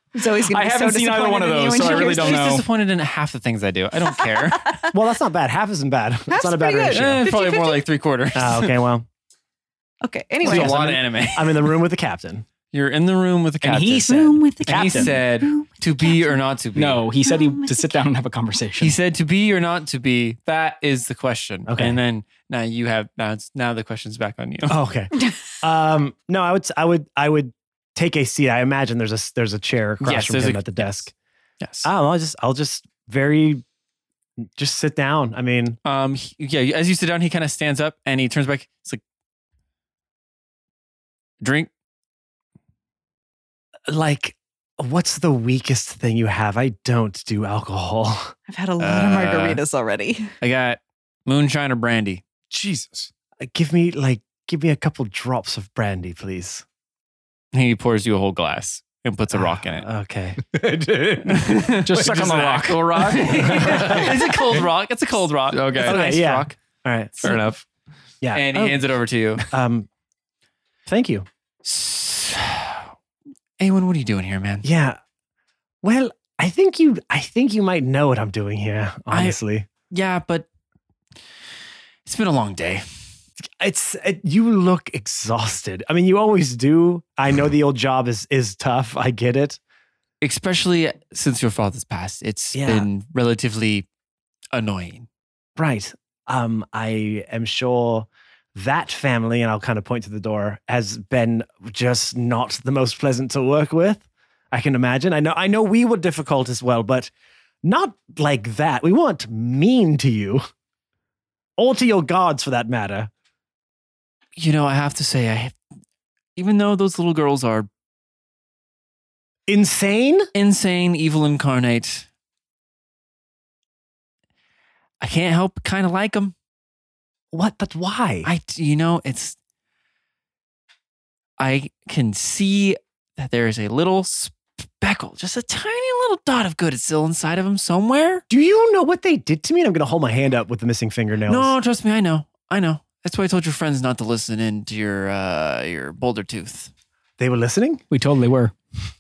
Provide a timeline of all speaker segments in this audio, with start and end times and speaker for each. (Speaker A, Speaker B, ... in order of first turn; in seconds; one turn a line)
Speaker A: 0.1-2.6
Speaker B: 0.4-2.7
Speaker C: 1.8-4.7
Speaker A: 4.0-4.9
Speaker D: 4.9-7.2
Speaker A: 6.3-7.8
Speaker C: 6.9-8.8
Speaker D: 8.3-9.1
Speaker A: 10.0-10.7
Speaker C: 10.4-11.8
Speaker D: 10.4-12.5
Speaker C: 12.7-17.0
Speaker B: 13.6-15.2
Speaker A: 14.1-16.4
Speaker B: 16.8-19.0
Speaker A: 17.2-18.0
Speaker C: 18.8-24.8
Speaker D: 21.7-22.0
Speaker D: 24.7-31.1
Speaker C: 30.0-31.0
Speaker C: 31.6-31.9
Speaker D: 31.9-33.6
Speaker D: 34.6-35.8
Speaker C: 35.9-39.0
Speaker C: 41.4-41.7
Speaker D: 43.9-48.3
Speaker A: 48.5-50.3
Speaker C: 48.8-49.6
Speaker C: 50.4-52.2
Speaker E: 52.5-53.1
Speaker D: 53.4-56.6
Speaker C: 57.5-59.9
Speaker D: 59.7-60.7
Speaker E: 60.6-61.3
Speaker C: 61.3-66.6
Speaker B: 61.8-63.6
Speaker E: 61.9-64.7
Speaker D: 63.5-64.1
Speaker E: 65.5-66.0
Speaker D: 65.8-67.1
Speaker E: 67.2-67.7
Speaker D: 68.2-68.8
Speaker C: 68.3-69.4
Speaker D: 69.5-69.9
Speaker D: 70.9-71.3
Speaker C: 71.6-72.9
Speaker C: 73.6-74.7
Speaker D: 74.6-75.0
Speaker D: 75.8-79.7
Speaker C: 79.1-80.5
Speaker C: 82.0-82.9
Speaker D: 83.6-89.6
Speaker C: 90.2-93.9
Speaker D: 92.5-92.9
Speaker C: 94.5-95.1
Speaker D: 95.6-107.1
Speaker D: 107.6-110.4
Speaker D: 111.6-113.1
Speaker C: 114.4-115.6
Speaker C: 116.4-117.7
Speaker D: 119.5-120.3
Speaker C: 120.3-122.1
Speaker C: 125.0-126.3
Speaker D: 127.3-128.3
Speaker C: 128.2-129.4
Speaker C: 131.4-138.2
Speaker D: 138.3-141.5
Speaker C: 141.3-146.7
Speaker D: 147.2-147.8
Speaker B: 147.9-148.5